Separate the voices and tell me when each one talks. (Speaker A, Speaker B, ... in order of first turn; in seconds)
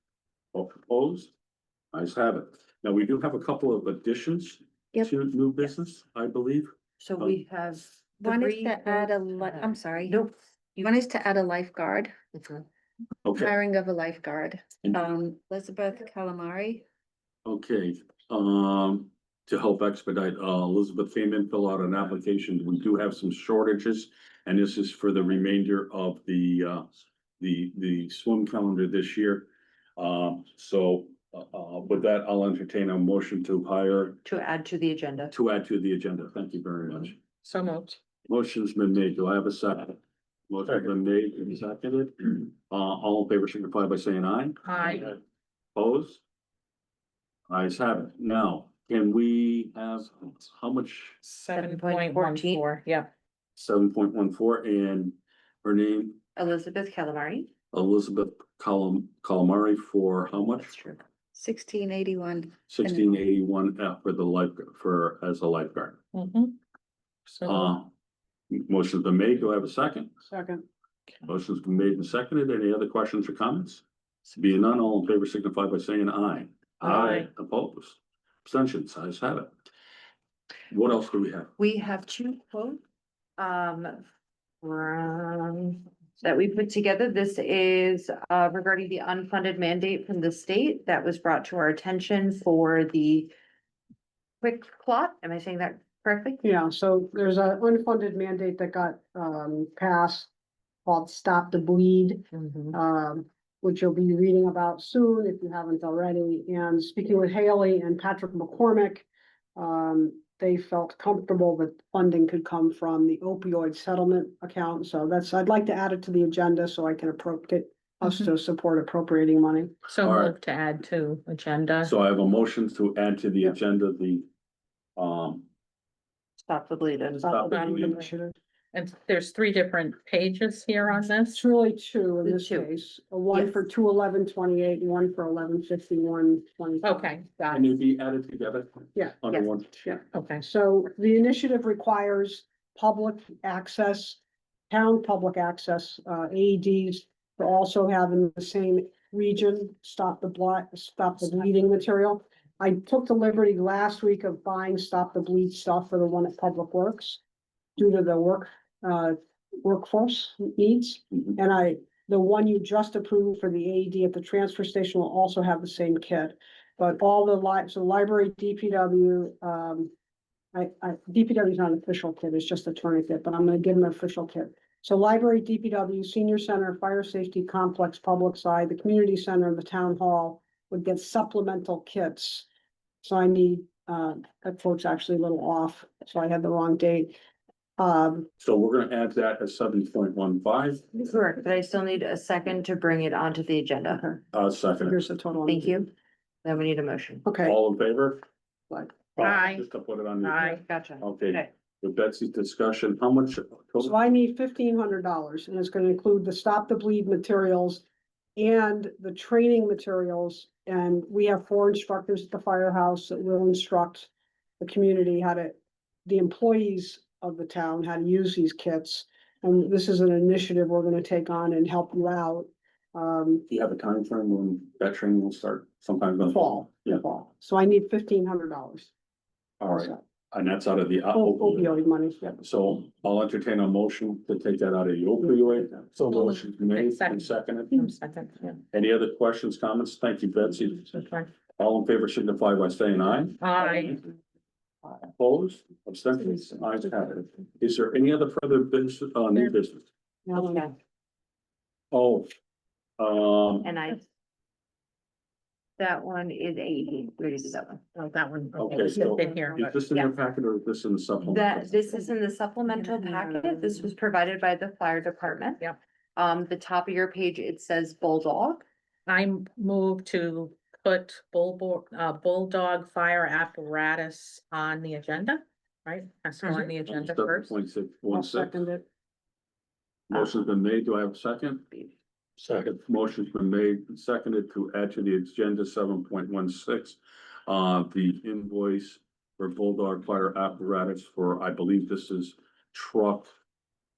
Speaker A: 0.5-1.3, 1.9-7.3, 13.2-13.5, 17.4-26.9, 27.4-34.2, 35.3-37.2, 38.3-40.0, 40.5-45.2, 45.8-46.2, 47.5-51.2, 53.6-56.2, 57.7-60.8, 62.7-66.0, 67.4-67.9, 68.5-70.1, 71.2-79.5, 80.7-81.5, 120.0-120.3, 121.8-124.3, 125.0-125.5, 127.3-128.0, 137.5-139.9, 188.4-191.0, 194.3-195.0, 197.4-198.2, 199.2-200.4, 201.0-204.0, 223.5-227.0, 229.6-231.7, 232.4-237.8, 238.7-240.9, 241.6-244.0, 245.0-249.8, 251.9-252.3, 253.0-253.7, 258.6-261.9, 276.9-278.7, 280.1-281.8, 282.4-293.3
Speaker B: 7.0-10.9, 12.3-12.6, 34.2-35.3, 51.5-52.7, 56.4-57.5, 60.6-61.0, 81.6-82.8, 83.4-84.0, 84.6-93.3, 94.4-96.4, 126.4-127.3, 132.2-132.7, 133.3-133.7, 191.0-194.2, 195.4-195.9, 196.4-197.3, 200.3-201.5, 253.6-254.0, 255.8-257.8, 261.3-265.6, 266.2-268.6
Speaker C: 8.2-10.2, 10.8-12.1, 13.3-16.8, 61.4-63.0
Speaker D: 37.4-38.0, 44.6-45.2, 51.2-53.1, 66.1-66.6, 67.3-67.7, 76.8-77.2, 102.4-102.7, 119.9-121.9, 127.4-128.1, 128.7-131.4, 136.8-137.7, 140.1-140.4, 199.2-199.7, 200.2-200.6, 236.1-238.6, 240.9-241.3, 243.4-244.0, 257.9-259.8, 269.1-277.6
Speaker E: 70.2-70.7, 96.4-100.3, 100.9-119.8, 127.2-128.4, 131.3-137.1, 138.9-144.2, 144.7-157.2, 157.8-169.9, 170.5-182.5, 183.0-187.2, 187.8-188.3, 194.8-195.9, 197.3-197.6, 203.8-207.8, 208.4-214.1, 214.6-223.4, 226.3-228.9, 231.1-232.4, 250.3-250.7, 259.1-259.4, 278.1-278.8